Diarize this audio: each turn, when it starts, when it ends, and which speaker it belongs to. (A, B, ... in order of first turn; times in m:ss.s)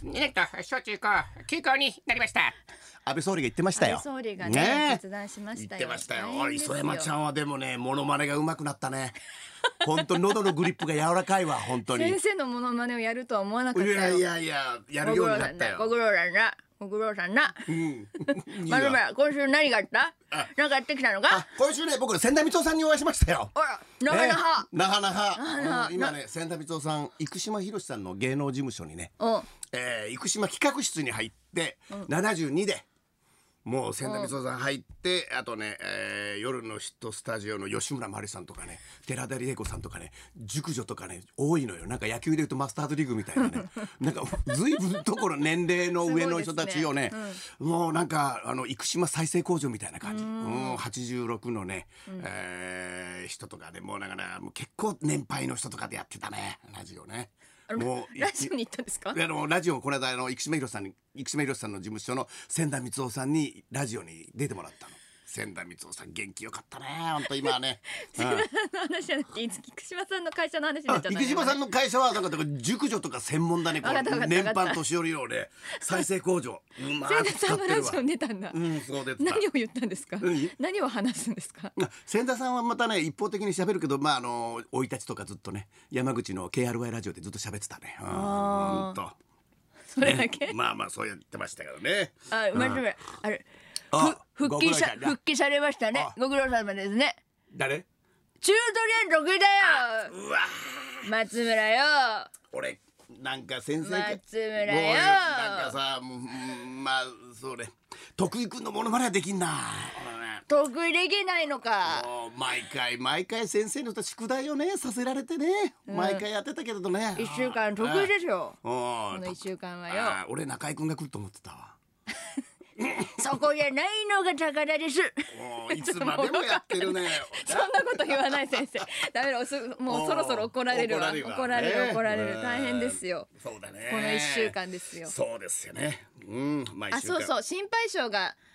0:00.2-0:02.5 A
0:03.0-0:05.0 B
0:03.8-0:07.1 C
0:05.6-0:09.2 B
0:09.8-0:12.2 B
0:11.8-0:14.2 C
0:13.7-0:15.9 B
0:15.0-0:17.7 C
0:17.7-0:19.0 B
0:18.3-0:21.4 C
0:21.3-0:23.5 B
0:23.6-0:24.7 C
0:24.1-0:29.1 B
0:25.4-0:26.2 C
0:29.2-0:29.5 C
0:29.7-0:32.9 B
0:33.6-0:58.5 B
0:34.0-0:34.3 C
0:46.0-0:47.4 C
0:50.0-0:50.8 C
0:57.7-0:59.2 C
0:59.1-1:08.5 B
1:07.4-1:11.6 C
1:10.9-1:19.4 B
1:13.8-1:14.8 C
1:15.7-1:16.0 C
1:17.0-1:18.6 C
1:19.2-1:21.7 C
1:20.2-1:20.6 B
1:21.8-1:29.2 B
1:28.1-1:29.0 C
1:29.9-1:30.6 C
1:30.0-1:32.8 B
1:32.3-1:37.2 C
1:33.9-1:35.2 B
1:37.5-1:37.9 B
1:38.4-1:40.1 C
1:39.6-1:41.1 B
1:41.0-1:42.3 C
1:42.5-1:50.4 B
1:43.8-1:45.8 C
1:50.5-1:52.1 C
1:51.8-1:58.1 B
1:55.9-1:56.2 C
1:57.2-1:58.6 C
1:58.6-2:01.8 B
1:59.1-2:00.2 C
2:02.8-2:03.1 B
2:03.1-2:13.3 C
2:05.3-2:08.6 B
2:09.9-2:17.3 B
2:13.9-2:15.1 C
2:16.9-2:18.4 C